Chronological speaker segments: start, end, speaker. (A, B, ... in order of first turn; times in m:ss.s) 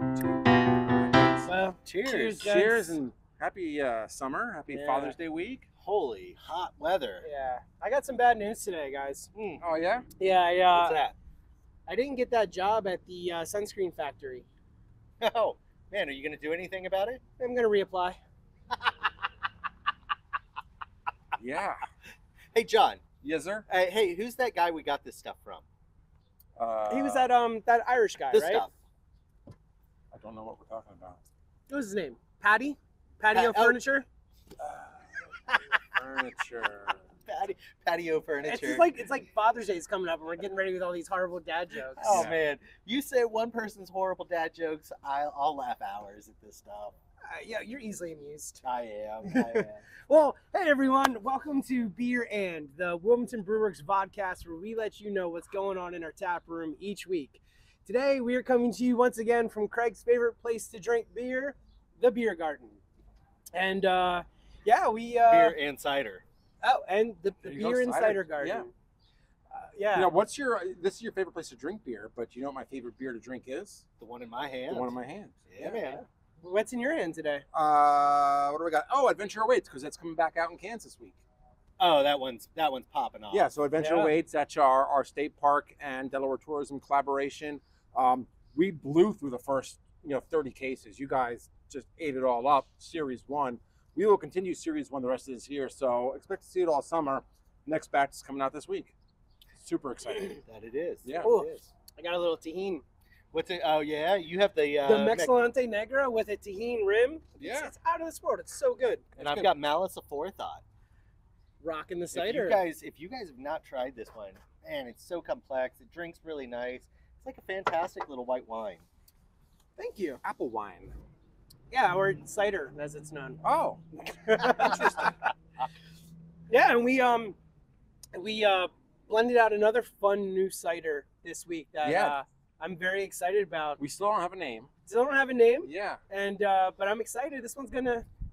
0:00.2-0:01.5 A
0:01.5-0:03.0 B
0:01.8-0:02.4 C
0:02.4-0:05.6 A
0:04.7-0:05.2 B
0:05.7-0:07.3 C
0:07.2-0:09.3 B
0:09.3-0:09.6 C
0:09.6-0:10.1 A
0:10.2-0:11.0 B
0:10.7-0:11.2 C
0:11.9-0:14.5 B
0:15.2-0:17.2 C
0:17.4-0:18.2 B
0:21.4-0:21.8 A
0:22.5-0:23.0 C
0:23.2-0:23.7 A
0:23.7-0:25.6 C
0:26.6-0:27.3 A
0:26.9-0:28.7 B
0:28.3-0:28.7 C
0:30.1-0:31.2 A
0:31.7-0:34.1 B
0:33.3-0:33.8 C
0:34.6-0:34.9 A
0:35.5-0:35.8 C
0:35.9-0:37.0 A
0:37.2-0:38.9 C
0:38.4-0:42.3 B
0:41.9-0:47.0 C
0:42.0-0:42.4 A
0:47.3-0:48.6 B
0:48.6-0:49.8 C
0:49.2-1:02.8 B
1:03.5-1:05.6 B
1:05.3-1:06.2 C
1:06.6-1:08.7 B
1:07.4-1:08.7 A
1:09.5-1:10.1 B
1:09.9-1:13.8 A
1:14.0-1:14.9 C
1:14.7-1:15.8 A
1:15.5-1:16.0 C
1:15.7-1:17.4 B
1:17.5-1:21.2 A
1:21.8-1:23.5 C
1:23.3-1:38.9 A
1:23.8-1:24.1 B
1:39.6-1:40.4 A
1:40.4-1:41.7 C
1:41.0-1:41.3 A
1:41.2-1:42.8 B
1:43.3-1:45.4 C
1:44.8-1:49.0 B
1:47.4-1:47.7 A
1:49.2-1:49.5 A
1:49.2-1:50.6 C
1:51.6-1:52.6 B
1:52.1-1:58.8 C
1:59.8-2:00.2 B
2:00.2-2:01.0 A
2:01.7-2:03.4 B
2:03.4-2:03.8 A
2:04.1-2:05.2 B
2:04.3-2:05.1 A
2:06.5-2:07.4 B
2:08.1-2:13.8 B
2:11.8-2:12.2 A
2:13.8-2:14.7 A
2:14.9-2:18.1 B
2:15.6-2:16.0 A